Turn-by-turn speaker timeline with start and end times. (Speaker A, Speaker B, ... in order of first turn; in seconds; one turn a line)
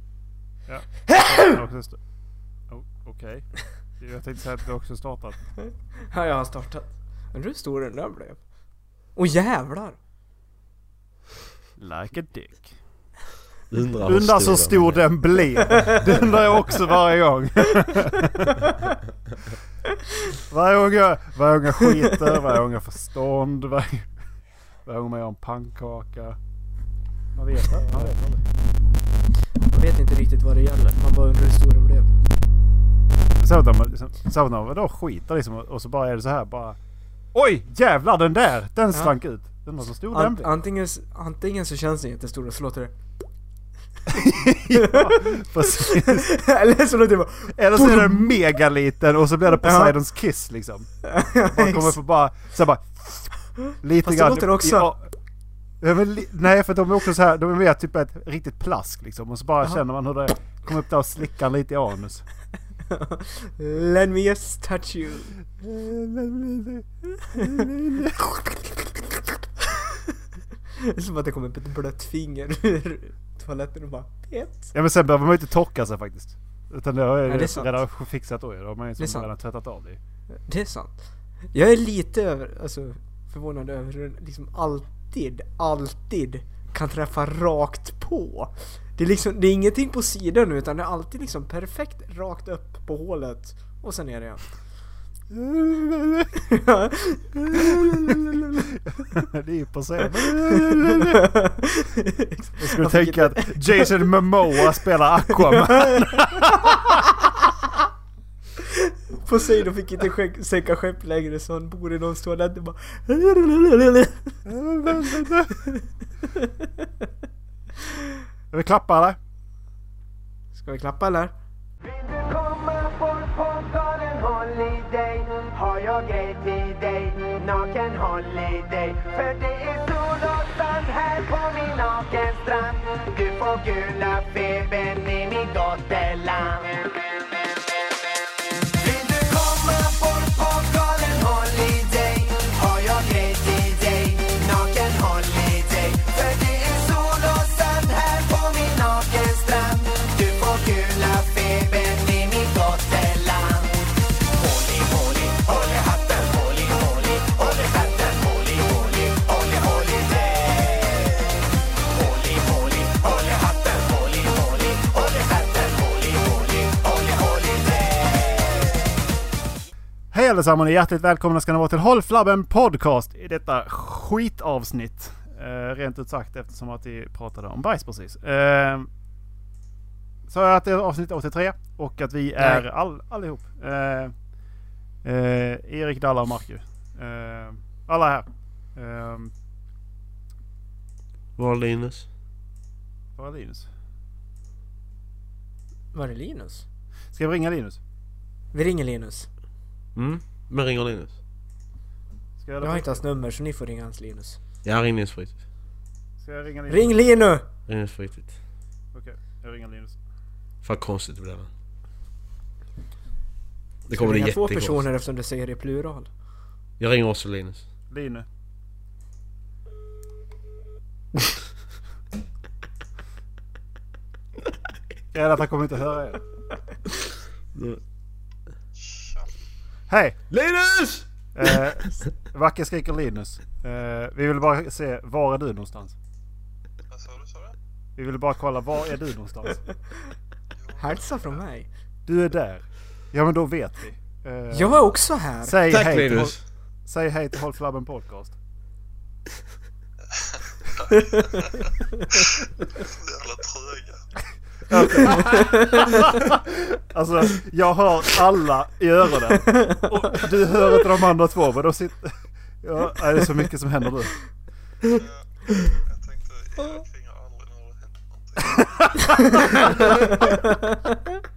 Speaker A: 0.7-2.0
Speaker A: 2.7-5.4
Speaker B: 6.1-8.4
Speaker B: 9.2-10.0
Speaker A: 11.8-12.8
Speaker C: 13.7-15.0
Speaker A: 14.1-18.6
Speaker B: 15.7-16.0
Speaker B: 18.4-18.8
Speaker A: 20.4-24.1
Speaker A: 24.9-26.4
Speaker A: 27.4-28.4
Speaker B: 29.7-32.1
Speaker A: 33.4-36.8
Speaker A: 37.3-40.5
Speaker B: 40.1-42.9
Speaker A: 44.1-46.3
Speaker B: 44.7-48.4
Speaker A: 47.6-50.9
Speaker B: 49.6-49.9
Speaker B: 51.0-52.0
Speaker A: 51.5-55.0
Speaker B: 54.0-54.9
Speaker A: 55.8-62.2
Speaker B: 62.9-65.4
Speaker A: 65.6-68.2
Speaker B: 70.8-74.7
Speaker A: 74.7-80.0
Speaker B: 77.3-77.8
Speaker B: 79.0-79.3
Speaker B: 80.5-81.0
Speaker B: 81.5-94.5
Speaker A: 95.3-96.3
Speaker B: 96.3-98.6
Speaker A: 97.6-98.0
Speaker A: 98.9-101.4
Speaker B: 100.4-104.0
Speaker A: 102.6-106.9
Speaker B: 105.5-107.4
Speaker B: 108.7-116.9
Speaker A: 114.5-115.6
Speaker A: 118.5-119.2
Speaker B: 120.5-121.3
Speaker D: 121.8-136.9
Speaker D: 138.7-161.1
Speaker D: 161.9-168.3
Speaker A: 170.1-178.9
Speaker A: 180.3-184.1
Speaker B: 182.4-182.7
Speaker A: 185.0-188.2
Speaker A: 188.8-189.3
Speaker C: 191.4-192.1
Speaker A: 193.2-193.7
Speaker B: 195.9-196.7
Speaker A: 197.1-197.8
Speaker B: 198.5-199.3
Speaker C: 199.9-201.2
Speaker A: 202.4-203.0
Speaker B: 202.6-204.4
Speaker C: 204.7-205.4
Speaker A: 206.2-206.9
Speaker B: 206.7-207.5
Speaker C: 207.7-208.3
Speaker A: 208.9-210.0
Speaker C: 210.6-211.5
Speaker C: 213.9-214.8
Speaker B: 213.9-216.1
Speaker C: 216.8-217.6
Speaker A: 217.9-218.2
Speaker A: 225.1-226.2
Speaker C: 227.6-227.8
Speaker E: 228.9-229.2
Speaker A: 229.9-230.2
Speaker C: 230.3-231.5
Speaker A: 231.3-235.9
Speaker E: 237.0-237.5
Speaker A: 238.0-239.6
Speaker B: 240.8-241.7
Speaker A: 242.1-244.8
Speaker B: 244.5-245.6
Speaker A: 245.4-246.3
Speaker C: 245.7-246.4
Speaker A: 246.9-248.3
Speaker B: 250.9-251.4
Speaker E: 252.8-254.0
Speaker A: 254.7-264.2
Speaker B: 254.9-256.2
Speaker B: 259.5-259.8
Speaker E: 265.9-270.1
Speaker A: 269.1-269.8
Speaker B: 269.8-270.8